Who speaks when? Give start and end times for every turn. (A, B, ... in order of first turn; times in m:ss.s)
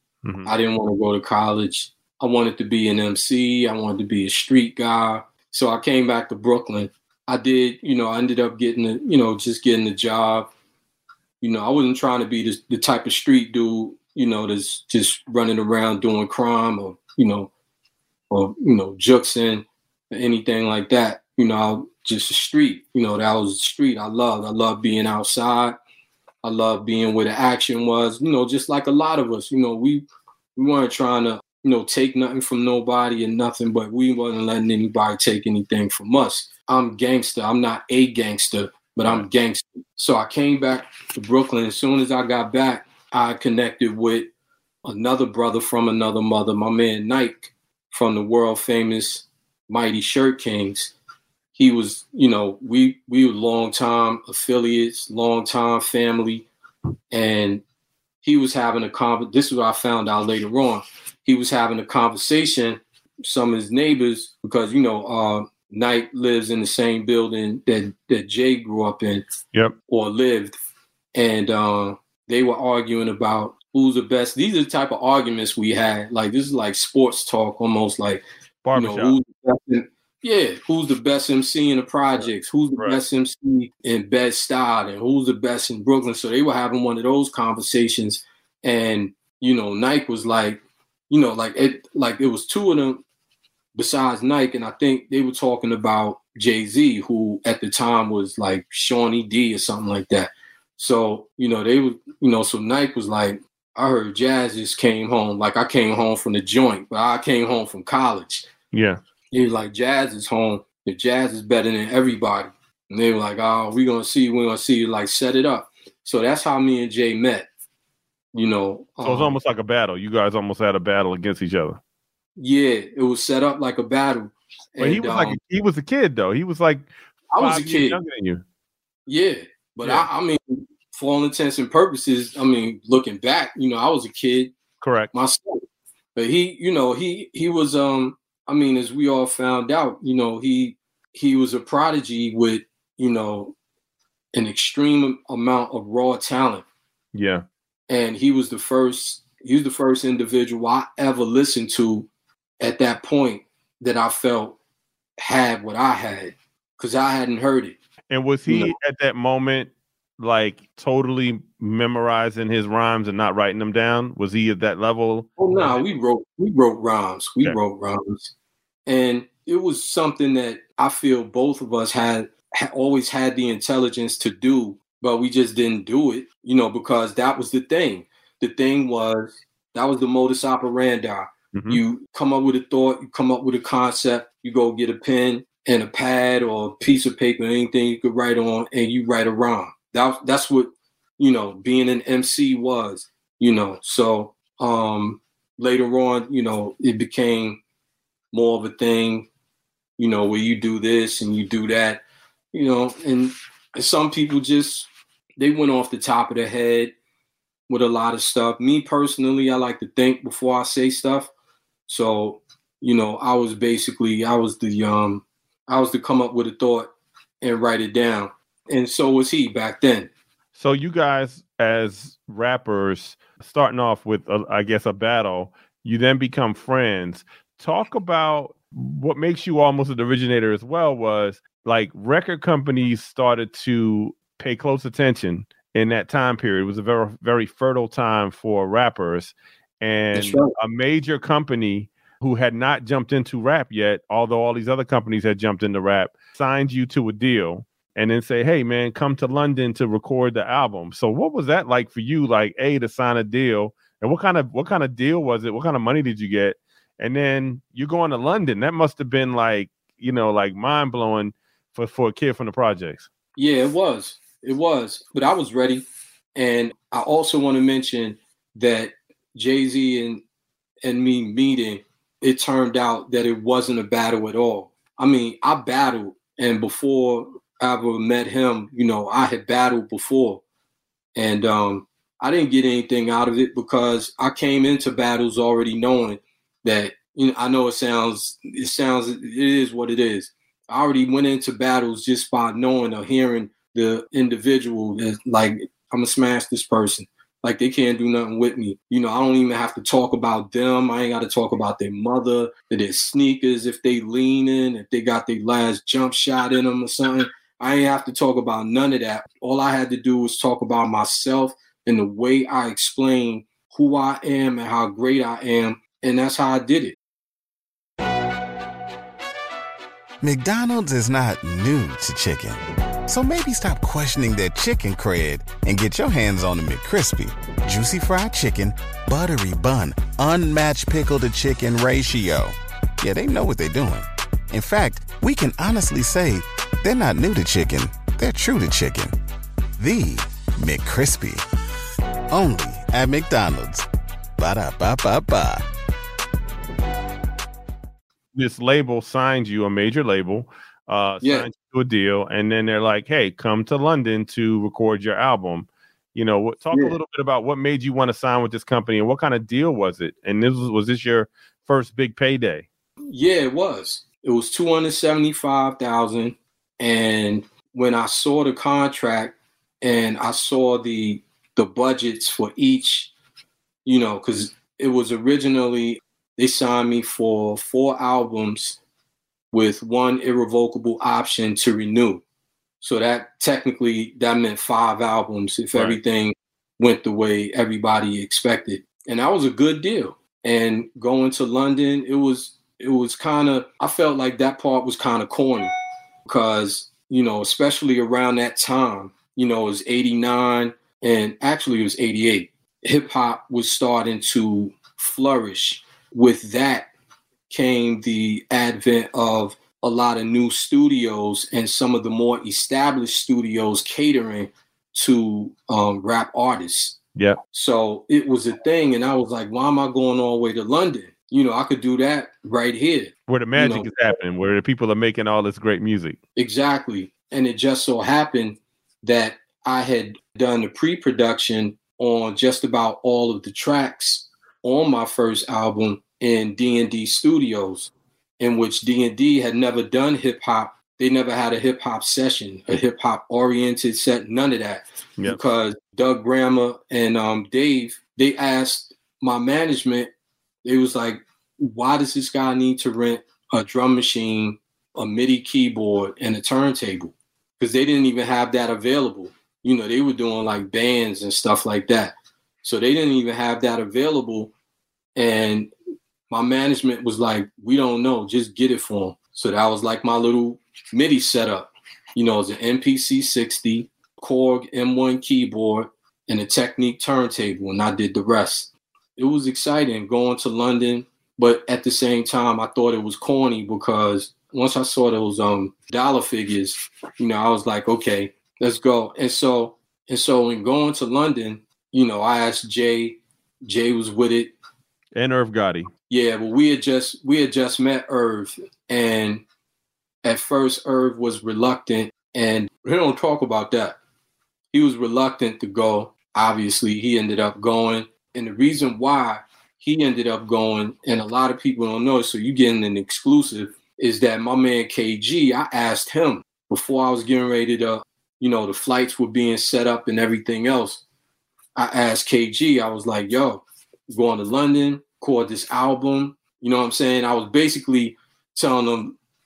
0:00.2-0:00.5 A
0:00.4-0:10.5 B
0:11.4-0:17.5 B
0:18.3-0:25.8 B
0:26.4-0:30.0 B
0:30.6-0:44.3 B
0:44.8-0:50.9 B
0:51.6-0:56.5 B
0:57.1-0:57.6 B
0:58.2-1:09.2 B
1:09.9-1:10.5 B
1:11.2-1:18.2 B
1:18.6-1:19.2 A
1:18.8-1:33.0 B
1:33.8-1:48.5 B
1:48.7-1:49.0 A
1:49.3-1:57.5 B
1:58.3-1:59.3 B
1:59.0-2:01.8 A
2:02.4-2:05.4 B
2:04.8-2:08.4 A
2:07.3-2:08.0 B
2:09.1-2:14.5 B
2:14.8-2:15.1 A
2:15.1-2:15.6 B
2:16.2-2:23.5 B
2:24.3-2:26.6 B
2:27.2-2:27.4 A
2:27.9-2:32.1 B
2:32.6-2:34.6 B
2:35.2-2:37.8 B
2:38.1-2:45.8 A
2:38.5-2:38.7 B
2:45.4-2:48.3 B
2:48.9-3:17.6 B
3:01.5-3:01.8 A
3:18.3-3:19.3 B
3:20.0-3:26.9 B
3:27.7-3:31.3 B
3:31.9-3:36.9 B
3:37.4-3:40.1 B
3:40.6-4:23.1 A
4:00.1-4:00.5 B
4:23.4-4:30.2 B
4:30.8-4:40.4 B
4:41.2-5:17.0 B
5:20.2-5:39.1 C
5:39.8-5:41.4 C
5:42.3-5:43.9 C
5:44.4-5:45.6 C
5:48.4-6:02.7 A
5:51.2-5:51.5 B
6:03.1-6:13.1 B
6:13.8-6:18.8 B
6:19.5-6:22.2 B
6:22.8-6:35.7 B
6:36.3-6:46.9 B
6:47.5-6:57.0 B
6:57.5-7:03.9 B
7:03.3-7:06.2 A
7:06.4-7:30.1 B
7:30.6-7:44.5 B
7:45.2-7:45.7 B
7:46.3-8:14.5 B
8:15.2-8:15.9 A
8:16.1-8:19.4 B
8:20.2-8:24.0 B
8:24.7-8:41.0 B
8:41.8-8:49.2 B